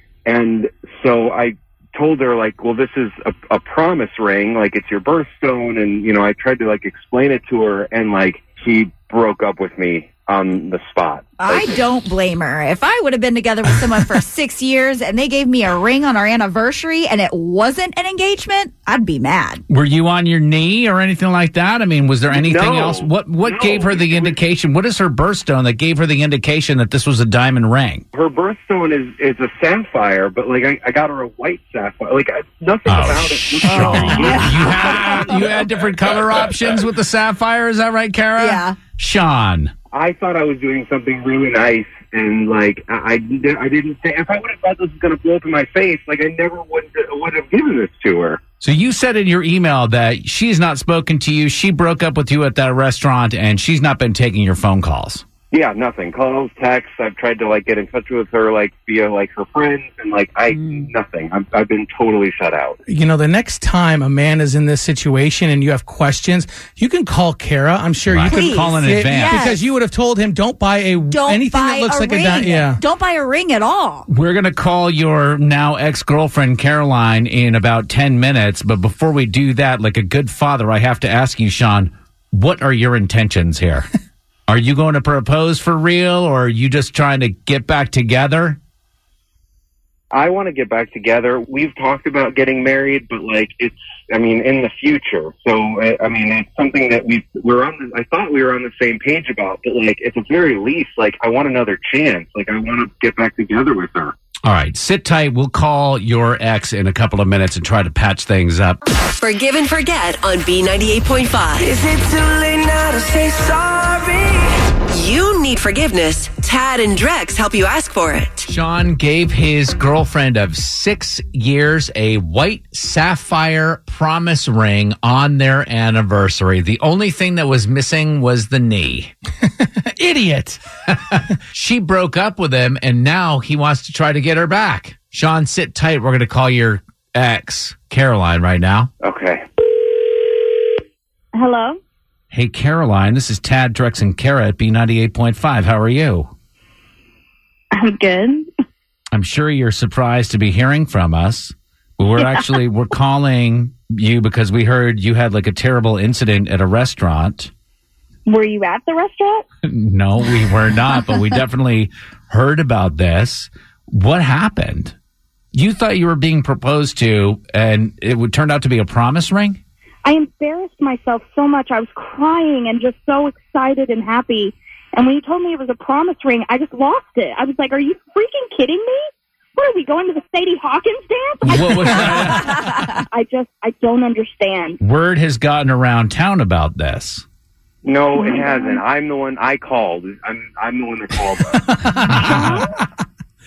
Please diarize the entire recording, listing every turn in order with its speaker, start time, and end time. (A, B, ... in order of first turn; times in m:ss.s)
0:00.2-0:11.8 A
0:11.4-0:19.6 B
0:19.7-0:28.0 C
0:22.3-0:24.4 A
0:28.1-0:35.5 A
0:32.9-0:39.7 C
0:33.6-0:35.4 B
0:38.4-0:38.8 B
0:39.9-0:48.4 A
0:48.6-0:55.2 C
0:55.5-1:02.8 A
1:02.9-1:12.8 D
1:08.0-1:09.5 C
1:08.2-1:09.6 B
1:11.1-1:14.1 B
1:14.1-1:23.9 C
1:24.5-1:28.6 C
1:30.1-1:44.1 A
1:44.4-1:48.8 C
1:49.2-1:51.7 E
1:51.6-1:54.7 F
1:54.9-1:58.5 E
1:58.5-2:09.1 C
2:09.6-2:10.6 D
2:10.9-2:18.9 C
2:19.0-2:19.4 A
2:21.3-2:21.8 G
2:22.3-2:26.3 C
2:27.7-2:28.5 G
2:29.1-2:37.5 C
2:38.3-2:39.4 G
2:39.6-2:44.9 C
2:45.5-2:49.6 C
2:50.0-3:04.8 G
3:01.4-3:02.6 C
3:04.8-3:07.2 C
3:07.8-3:11.8 A
3:08.1-3:08.8 G
3:11.7-3:12.9 D
3:12.0-3:12.6 C